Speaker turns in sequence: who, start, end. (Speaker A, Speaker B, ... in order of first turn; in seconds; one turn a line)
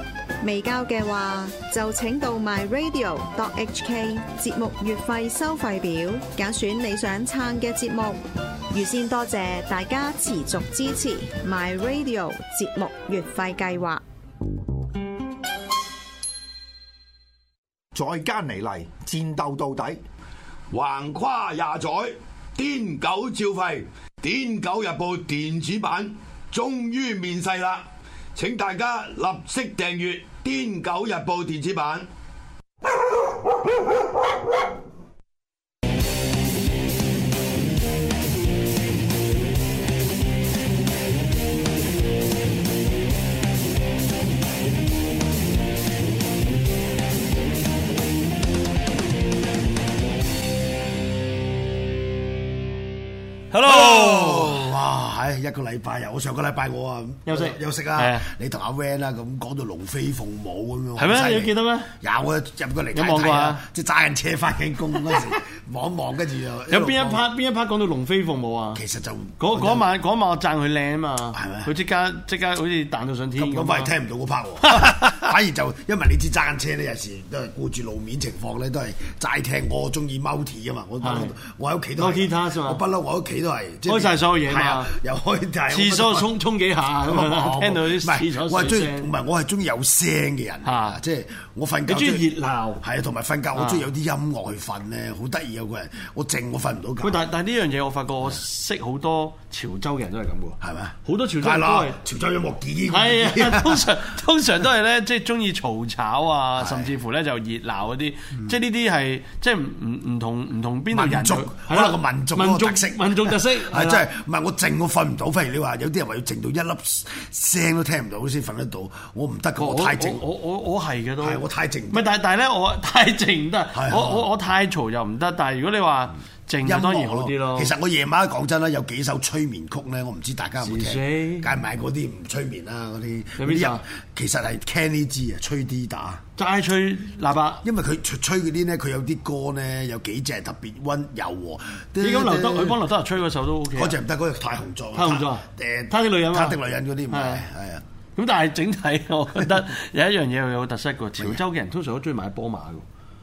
Speaker A: 0.4-14.0
Speaker B: 17.9-20.0
Speaker C: 20.7-32.1
Speaker D: 53.5-54.7
Speaker E: 53.6-67.3
Speaker D: 57.2-58.3
Speaker D: 61.0-61.9
Speaker D: 62.9-63.6
Speaker D: 66.7-68.8
Speaker E: 68.8-69.9
Speaker D: 69.4-73.9
Speaker E: 71.3-71.7
Speaker E: 73.4-86.3
Speaker D: 74.7-75.2
Speaker D: 81.0-81.3
Speaker D: 82.0-82.8
Speaker D: 83.9-84.9
Speaker D: 85.7-89.1
Speaker E: 87.1-92.3
Speaker D: 90.6-91.0
Speaker D: 91.9-92.8
Speaker E: 92.8-97.2
Speaker D: 93.5-93.9
Speaker D: 97.0-102.0
Speaker E: 100.6-103.9
Speaker D: 102.9-114.1
Speaker E: 106.6-106.9
Speaker E: 110.9-120.2
Speaker D: 119.6-127.7
Speaker E: 121.2-122.0
Speaker E: 123.7-124.3
Speaker E: 126.6-136.2
Speaker D: 130.6-131.5
Speaker D: 133.4-133.8
Speaker D: 136.4-137.6
Speaker E: 137.6-142.8
Speaker D: 142.0-143.9
Speaker E: 143.7-147.8
Speaker D: 144.9-146.6
Speaker D: 147.1-147.4
Speaker D: 148.2-152.8